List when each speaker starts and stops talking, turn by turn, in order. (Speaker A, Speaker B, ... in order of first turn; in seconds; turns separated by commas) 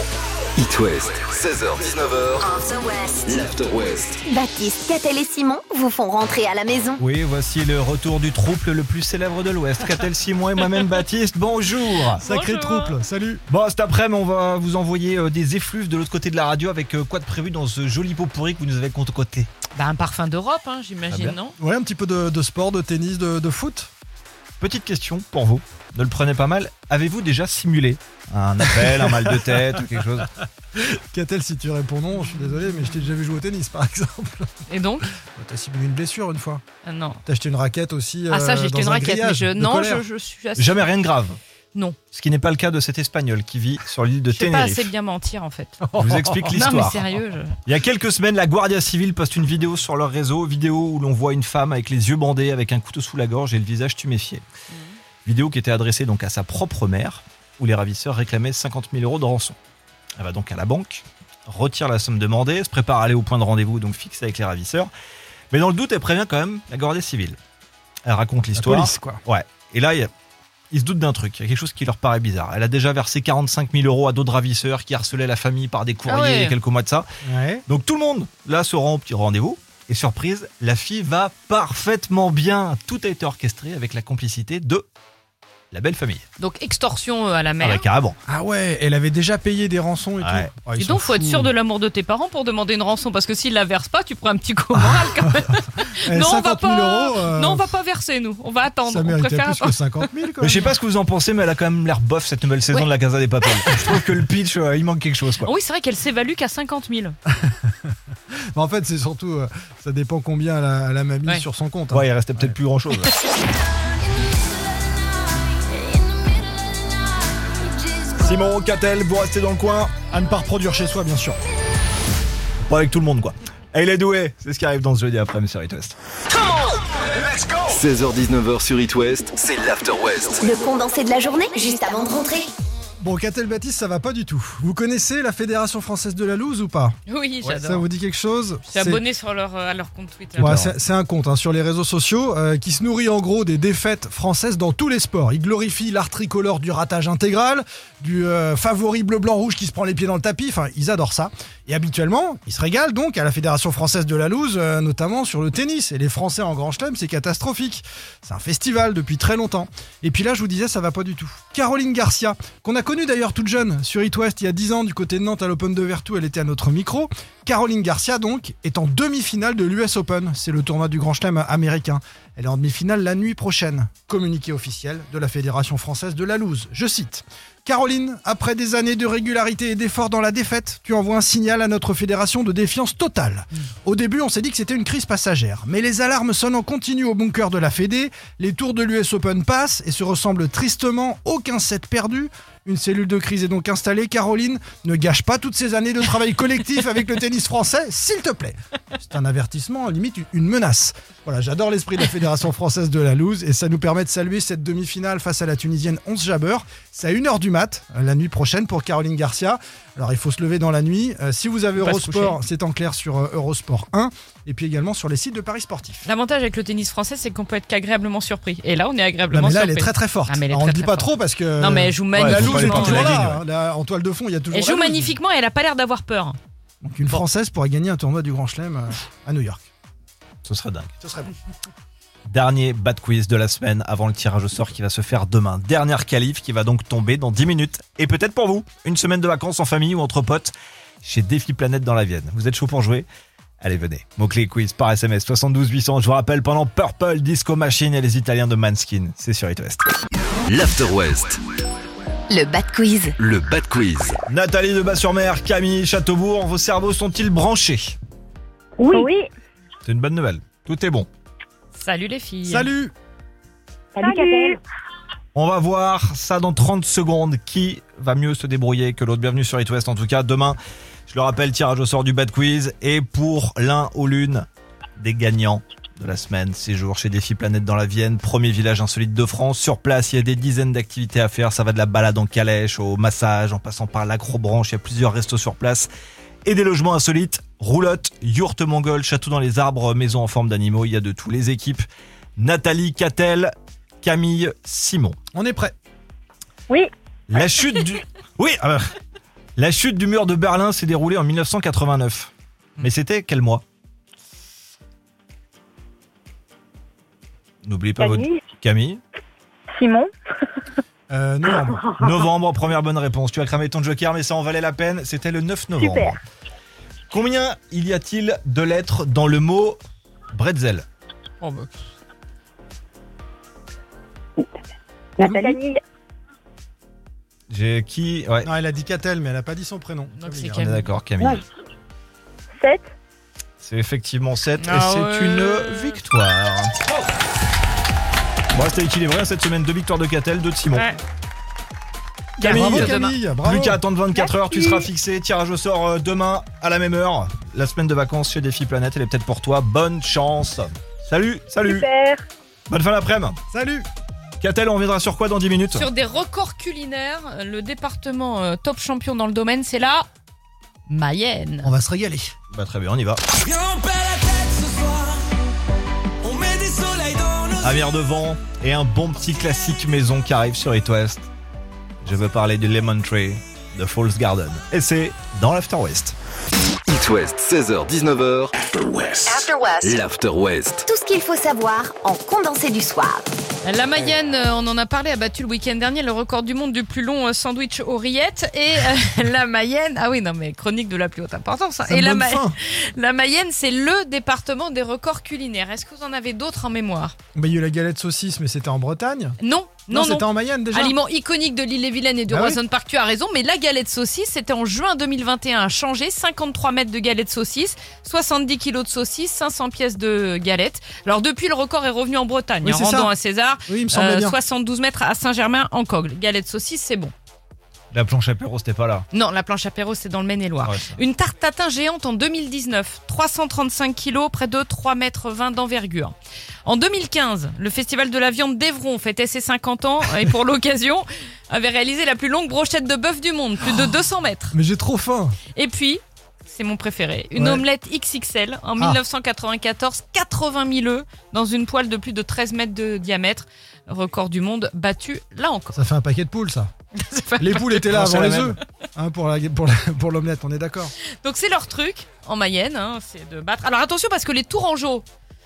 Speaker A: 0.6-2.5, Speaker B: 2.4-3.5, Speaker A: 3.3-4.2, Speaker B: 4.2-7.0, Speaker C: 7.0-12.2, Speaker D: 12.2-13.0, Speaker E: 12.2-13.4, Speaker C: 13.5-19.5, Speaker D: 19.7-21.6, Speaker C: 21.1-21.4, Speaker E: 21.6-23.9, Speaker C: 24.6-30.3, Speaker E: 28.8-29.8, Speaker E: 30.7-36.6, Speaker D: 34.7-35.1, Speaker D: 36.8-37.2, Speaker E: 37.2-40.0, Speaker D: 38.3-40.9, Speaker C: 40.5-41.4, Speaker D: 41.7-42.0, Speaker C: 42.1-44.9, Speaker D: 44.3-45.9, Speaker E: 45.8-46.6, Speaker C: 46.0-47.0, Speaker D: 46.4-47.6, Speaker C: 47.6-54.4, Speaker C: 55.2-59.5, Speaker C: 60.2-64.9, Speaker C: 65.5-67.4, Speaker C: 68.0-70.1, Speaker E: 68.5-69.2, Speaker C: 70.7-77.1, Speaker D: 76.1-76.5, Speaker E: 77.2-77.6, Speaker C: 77.7-84.8, Speaker C: 85.7-86.2, Speaker D: 86.4-87.8, Speaker C: 87.6-88.2, Speaker E: 88.3-91.5, Speaker C: 90.2-90.5, Speaker D: 90.8-100.1, Speaker E: 96.0-97.7, Speaker E: 98.8-100.7, Speaker C: 100.4-105.5, Speaker D: 103.5-103.9, Speaker D: 105.4-107.2, Speaker E: 108.5-112.5, Speaker C: 111.9-113.2, Speaker C: 118.2-119.9, Speaker E: 120.1-121.4, Speaker C: 122.6-126.0, Speaker A: 127.7-130.5, Speaker B: 130.4-132.5, Speaker E: 133.0-139.0, Speaker D: 137.1-137.9, Speaker D: 138.7-140.6, Speaker E: 140.3-216.1, Speaker C: 140.3-140.7, Speaker D: 211.8-212.4, Speaker D: 216.0-223.2, Speaker E: 219.3-225.2, Speaker C: 222.1-223.4, Speaker D: 224.5-226.4, Speaker E: 226.8-229.7, Speaker C: 230.4-230.9, Speaker E: 231.0-231.3, Speaker C: 232.3-243.1, Speaker C: 243.6-249.9, Speaker A: 250.5-251.4, Speaker B: 252.3-253.1, Speaker A: 253.2-254.1, Speaker C: 254.3-258.0, Speaker F: 258.8-259.3, Speaker C: 259.8-261.1, Speaker D: 261.7-262.7, Speaker E: 262.4-262.9, Speaker F: 263.9-264.6, Speaker C: 265.3-274.5, Speaker C: 275.0-285.9, Speaker C: 286.4-291.8, Speaker C: 292.4-295.2, Speaker E: 295.3-295.7, Speaker C: 297.3-298.9, Speaker C: 299.6-303.6, Speaker C: 307.6-309.0, Speaker F: 308.0-308.4, Speaker F: 309.7-310.1, Speaker E: 311.1-311.9, Speaker C: 312.0-316.2, Speaker F: 315.8-316.2, Speaker C: 317.1-319.8, Speaker C: 320.3-320.9, Speaker D: 321.4-321.7, Speaker F: 325.2-325.8, Speaker C: 327.5-328.5, Speaker E: 328.4-330.6, Speaker D: 330.1-330.9, Speaker C: 330.5-331.4, Speaker F: 332.6-332.9, Speaker C: 333.6-336.7, Speaker D: 334.6-336.0, Speaker C: 338.5-340.9, Speaker D: 340.7-341.0, Speaker D: 342.4-343.2, Speaker E: 342.4-343.8, Speaker C: 342.4-351.9, Speaker F: 344.1-344.8, Speaker F: 351.6-352.2, Speaker C: 352.7-353.4, Speaker E: 353.5-353.9, Speaker C: 354.4-355.9, Speaker D: 355.7-360.1, Speaker D: 360.9-361.7, Speaker E: 361.6-362.3, Speaker C: 362.5-363.2, Speaker G: 363.5-365.2, Speaker G: 366.3-367.5, Speaker C: 367.6-371.3, Speaker C: 372.0-376.1, Speaker A: 376.9-378.5, Speaker G: 379.2-379.9, Speaker B: 379.2-380.0, Speaker A: 379.3-380.8, Speaker B: 380.8-383.2, Speaker D: 383.6-397.1, Speaker E: 391.8-392.6, Speaker E: 397.3-399.4, Speaker D: 399.4-417.1, Speaker E: 399.9-400.9, Speaker E: 402.3-402.6, Speaker E: 412.6-413.1, Speaker E: 413.7-414.4, Speaker C: 417.9-419.1, Speaker D: 419.1-434.6, Speaker C: 420.6-421.0, Speaker E: 434.5-435.4, Speaker D: 435.5-445.8, Speaker E: 437.4-437.6, Speaker E: 445.7-446.7, Speaker D: 446.9-447.9, Speaker E: 447.4-450.9, Speaker C: 447.9-448.6, Speaker D: 451.2-455.1